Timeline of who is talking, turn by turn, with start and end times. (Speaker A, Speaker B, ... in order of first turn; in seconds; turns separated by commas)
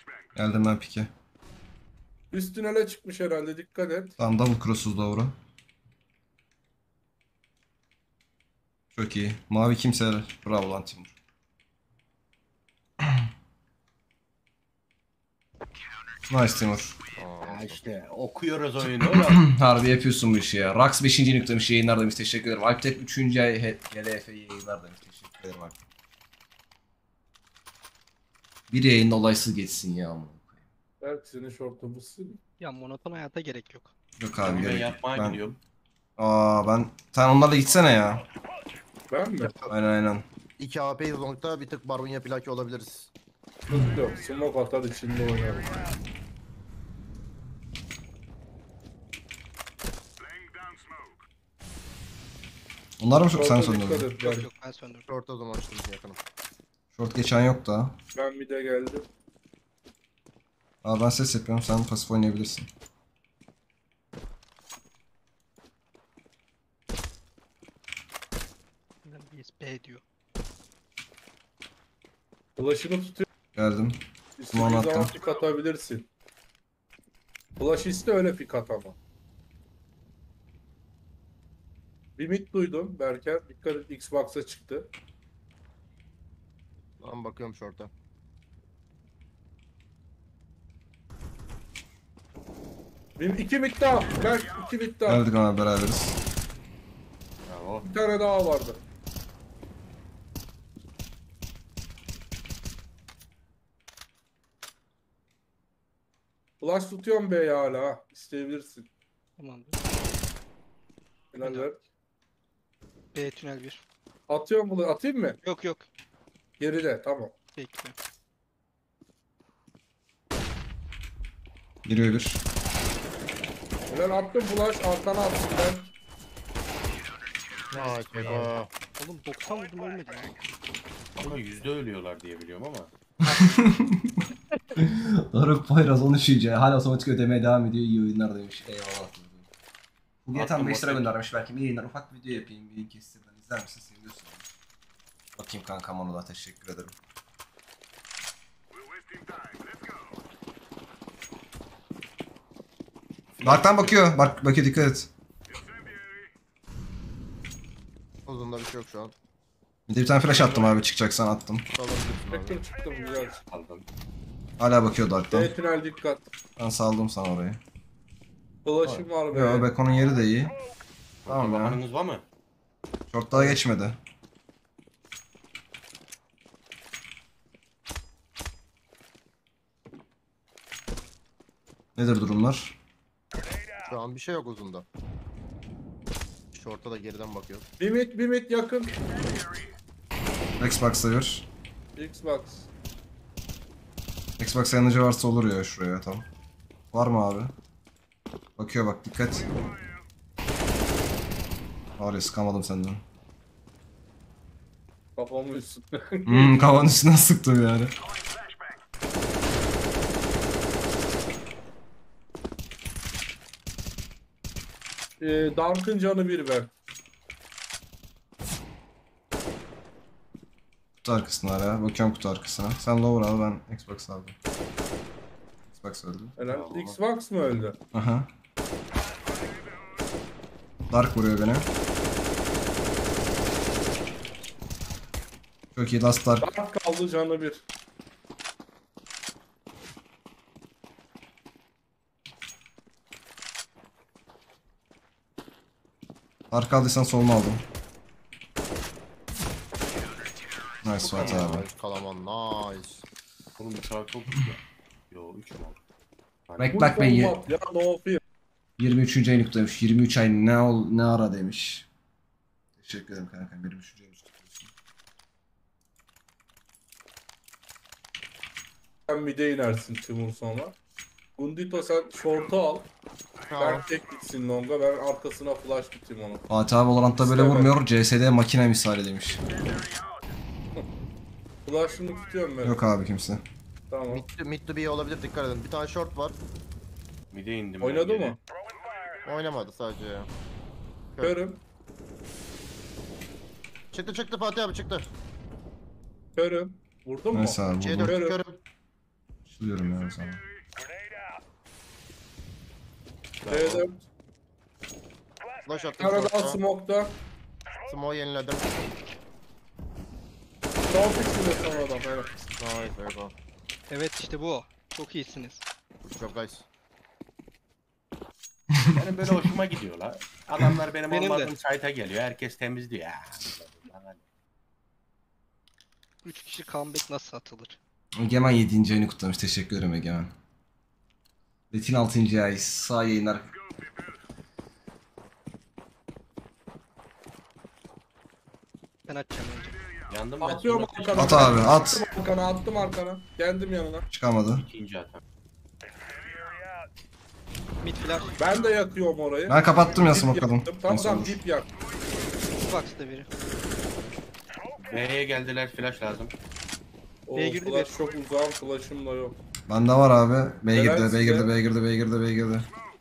Speaker A: 0.4-1.1, Speaker B: 2.3-4.2, Speaker A: 4.2-5.3, Speaker A: 8.9-11.1, Speaker A: 13.0-13.3, Speaker A: 16.3-17.0, Speaker C: 17.2-17.8, Speaker D: 17.5-19.4, Speaker A: 19.1-25.8, Speaker A: 28.7-30.6, Speaker B: 31.0-32.4, Speaker E: 32.6-33.9, Speaker A: 34.2-35.4, Speaker D: 34.4-35.6, Speaker A: 36.2-38.2, Speaker B: 39.1-39.5, Speaker C: 39.5-39.7, Speaker A: 39.7-40.2, Speaker C: 40.6-43.1, Speaker B: 43.7-45.8, Speaker A: 53.0-54.1, Speaker B: 53.3-54.5, Speaker E: 54.2-55.1, Speaker C: 55.1-56.2, Speaker A: 56.9-58.0, Speaker B: 58.1-59.1, Speaker A: 60.8-62.7, Speaker E: 69.0-70.0, Speaker B: 72.6-73.3, Speaker A: 73.5-74.0, Speaker B: 74.4-76.1, Speaker A: 74.5-75.1, Speaker B: 77.6-79.0, Speaker B: 82.2-84.9, Speaker C: 87.0-87.9, Speaker B: 93.2-95.2, Speaker A: 95.1-96.2, Speaker D: 97.5-97.9, Speaker B: 97.8-98.8, Speaker B: 106.6-108.9, Speaker E: 109.4-109.8, Speaker B: 111.3-111.8, Speaker E: 111.4-111.7, Speaker E: 113.1-113.8, Speaker B: 114.3-115.4, Speaker E: 115.4-115.9, Speaker B: 116.6-117.4, Speaker E: 117.5-118.0, Speaker A: 121.8-122.4, Speaker B: 123.9-125.9, Speaker C: 127.7-128.7, Speaker E: 127.7-130.4, Speaker D: 131.2-132.9, Speaker E: 133.2-133.8, Speaker A: 133.3-134.2, Speaker A: 134.8-139.4, Speaker A: 140.2-144.4, Speaker D: 140.3-141.1, Speaker A: 145.4-146.9, Speaker D: 153.3-154.3, Speaker A: 153.4-155.1, Speaker C: 158.3-159.1, Speaker A: 159.9-161.7, Speaker C: 161.7-162.6, Speaker B: 162.3-163.4, Speaker D: 163.5-163.8, Speaker A: 164.6-165.5, Speaker B: 165.3-166.3, Speaker A: 166.6-167.6, Speaker B: 168.6-169.7, Speaker A: 168.9-170.5, Speaker D: 171.3-172.2, Speaker A: 171.3-171.8, Speaker A: 173.1-174.0, Speaker B: 173.3-173.6, Speaker A: 182.0-182.8, Speaker C: 183.8-184.9, Speaker C: 186.5-187.7, Speaker B: 187.8-189.0, Speaker A: 190.6-191.5, Speaker B: 192.0-192.7, Speaker A: 194.4-196.2, Speaker A: 196.9-197.5, Speaker A: 198.6-199.6, Speaker A: 202.0-203.0, Speaker B: 205.2-206.6, Speaker A: 206.3-207.9, Speaker B: 215.2-216.7, Speaker A: 221.0-224.3, Speaker A: 225.7-226.3, Speaker B: 226.4-227.8, Speaker D: 226.5-227.0, Speaker A: 227.9-228.3, Speaker A: 230.9-231.7, Speaker A: 235.8-236.5, Speaker B: 236.4-237.6, Speaker A: 246.5-247.6, Speaker A: 250.8-251.7, Speaker C: 251.0-253.0, Speaker D: 253.6-255.8, Speaker D: 256.5-256.8, Speaker A: 256.6-257.4, Speaker B: 256.7-258.2, Speaker A: 258.8-261.9, Speaker A: 262.8-264.7, Speaker B: 269.1-270.8, Speaker B: 271.4-272.9, Speaker C: 273.5-273.9, Speaker B: 273.6-276.4, Speaker A: 276.5-279.4, Speaker B: 277.2-277.7, Speaker B: 281.6-282.8, Speaker A: 282.6-283.4, Speaker B: 283.9-284.2, Speaker C: 284.1-286.4, Speaker D: 287.3-288.4, Speaker B: 287.8-288.4, Speaker C: 289.2-290.3, Speaker C: 291.1-291.4, Speaker B: 291.2-291.6, Speaker C: 293.9-295.1, Speaker B: 296.4-298.4, Speaker A: 297.3-298.2, Speaker C: 297.8-298.6, Speaker A: 299.5-300.4, Speaker D: 303.4-303.9, Speaker B: 303.5-304.0, Speaker C: 305.6-306.6, Speaker B: 306.0-307.2, Speaker C: 307.9-308.9, Speaker B: 310.9-312.4, Speaker C: 312.6-313.3, Speaker E: 313.9-315.6, Speaker C: 316.0-316.7, Speaker D: 318.9-324.2, Speaker E: 321.1-321.5, Speaker E: 326.2-327.8, Speaker A: 328.2-330.3, Speaker A: 331.7-333.5, Speaker E: 339.1-339.8, Speaker D: 340.1-341.8, Speaker B: 340.4-344.1, Speaker A: 341.2-342.0, Speaker A: 344.1-344.6, Speaker D: 344.6-345.2, Speaker E: 347.8-348.4, Speaker B: 348.4-351.7, Speaker A: 349.5-351.4, Speaker E: 352.6-353.3, Speaker D: 354.9-356.3, Speaker B: 357.3-359.4, Speaker E: 357.3-357.9, Speaker A: 359.7-362.7, Speaker B: 360.7-361.5